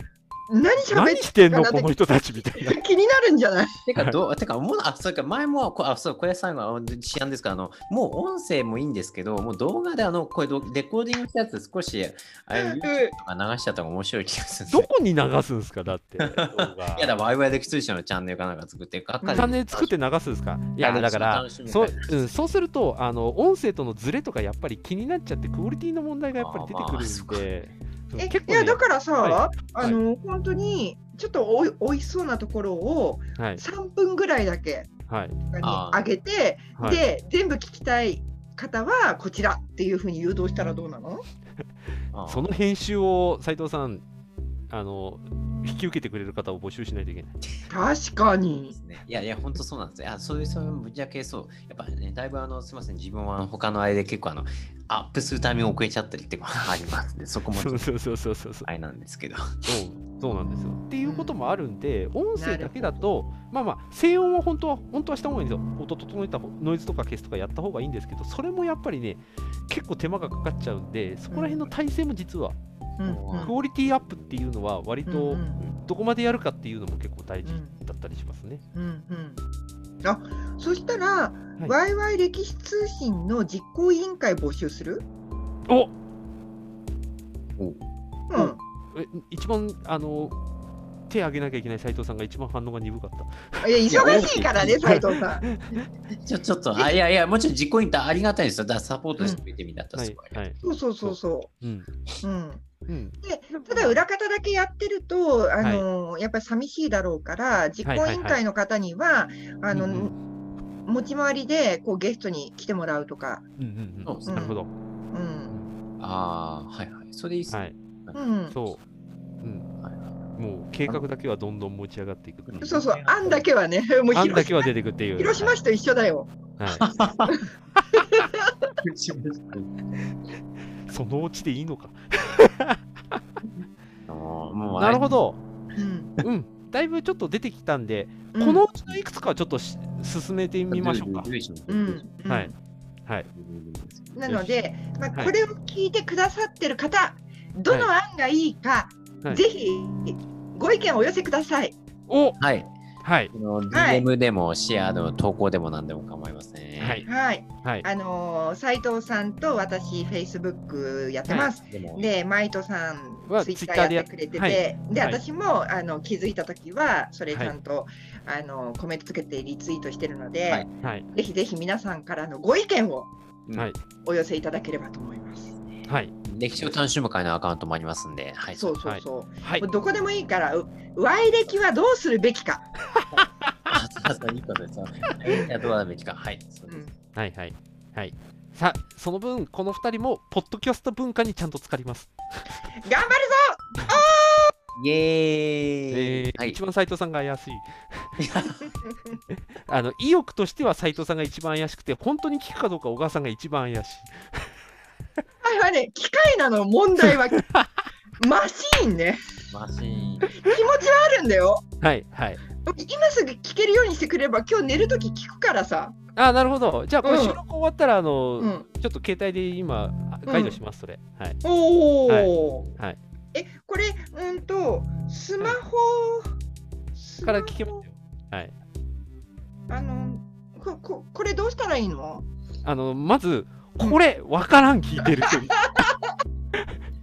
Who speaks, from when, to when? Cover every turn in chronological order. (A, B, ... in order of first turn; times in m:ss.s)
0:00.5-0:03.8 A
0:00.8-0:02.8 B
0:03.8-0:14.9 C
0:12.5-0:13.2 A
0:14.7-0:17.1 B
0:16.2-0:19.9 C
0:19.2-0:19.6 A
0:19.3-0:30.0 B
0:20.8-0:22.4 C
0:26.3-0:27.6 C
0:28.2-0:34.9 A
0:33.4-0:33.6 B
0:35.1-0:35.4 B
0:35.5-0:41.2 A
0:35.6-0:36.1 C
0:36.8-0:37.0 B
0:42.1-0:42.5 C
0:42.2-0:44.0 B
0:44.7-0:47.4 B
0:47.7-0:48.8 A
0:48.6-0:57.9 C
0:57.5-0:58.7 B
0:58.6-0:59.7 C
0:59.6-1:12.6 B
1:00.4-1:01.4 A
1:02.4-1:03.1 A
1:11.3-1:11.7 A
1:13.0-1:13.5 A
1:13.0-1:13.7 C
1:13.4-1:18.6 B
1:15.0-1:15.6 A
1:17.4-1:17.8 A
1:18.7-1:19.4 A
1:20.0-1:25.0 A
1:25.7-1:25.9 B
1:28.3-1:28.6 A
1:28.3-1:30.4 B
1:31.1-1:35.8 B
1:33.6-1:35.4 A
1:33.9-1:34.9 C
1:36.1-1:40.4 C
1:36.7-1:37.0 A
1:39.9-1:41.9 B
1:40.6-1:41.5 A
1:42.2-1:42.7 A
1:42.9-1:44.0 B
1:43.2-1:50.1 A
1:45.6-1:45.8 B
1:47.8-1:48.4 B
1:49.7-1:50.2 B
1:50.8-1:53.4 A
1:53.6-1:54.7 B
1:54.0-1:54.5 C
1:54.3-1:54.6 A
1:55.1-1:55.6 A
1:56.0-1:58.2 C
1:57.5-1:57.8 B
1:58.1-1:58.6 A
1:58.5-1:58.8 B
1:59.4-1:59.7 B
1:59.8-2:00.2 C
2:00.3-2:02.7 B
2:02.5-2:03.5 C
2:02.6-2:06.4 A
2:04.1-2:05.6 B
2:06.6-2:06.8 B
2:06.7-2:07.4 C
2:07.3-2:08.3 A
2:08.8-2:09.9 C
2:10.9-2:13.2 B
2:14.1-2:15.2 C
2:14.8-2:15.4 B
2:15.8-2:16.1 A
2:16.2-2:21.3 B
2:18.3-2:18.6 A
2:20.7-2:22.1 C
2:21.7-2:22.5 A
2:22.3-2:22.5 B
2:23.3-2:24.2 C
2:24.2-2:31.8 A
2:24.3-2:24.6 B
2:32.1-2:32.4 B
2:32.4-2:32.7 C
2:33.0-2:33.3 B
2:33.3-2:37.0 C
2:33.7-2:34.1 A
2:36.8-2:37.1 B
2:37.0-2:53.1 A
2:41.2-2:41.5 B
2:41.6-2:42.1 C
2:43.3-2:45.2 B
2:47.3-2:47.5 B
2:50.8-2:51.1 B
2:54.0-2:55.5 A
2:55.7-2:58.8 C
2:55.8-2:56.1 B
2:58.5-3:02.6 A
2:58.8-2:59.6 B
3:03.2-3:03.7 B
3:03.7-3:06.9 C
3:06.7-3:06.9 A
3:07.2-3:12.6 B
3:12.8-3:14.5 A
3:14.8-3:16.6 C
3:15.9-3:18.2 B
3:18.2-3:18.7 C
3:19.6-3:24.4 B
3:25.4-3:27.4 A
3:28.2-3:29.2 A
3:29.5-3:30.3 C
3:30.3-3:31.6 A
3:31.8-3:32.4 B
3:32.6-3:36.0 A
3:36.2-3:41.4 B
3:37.0-3:37.4 A
3:38.4-3:38.6 A
3:40.3-3:40.6 A
3:41.4-3:42.7 A
3:42.1-3:43.0 B
3:43.3-3:46.3 A
3:46.9-3:47.8 A
3:47.2-3:48.5 B
3:49.7-3:52.2 A
3:52.6-3:55.8 B
3:55.2-3:55.7 A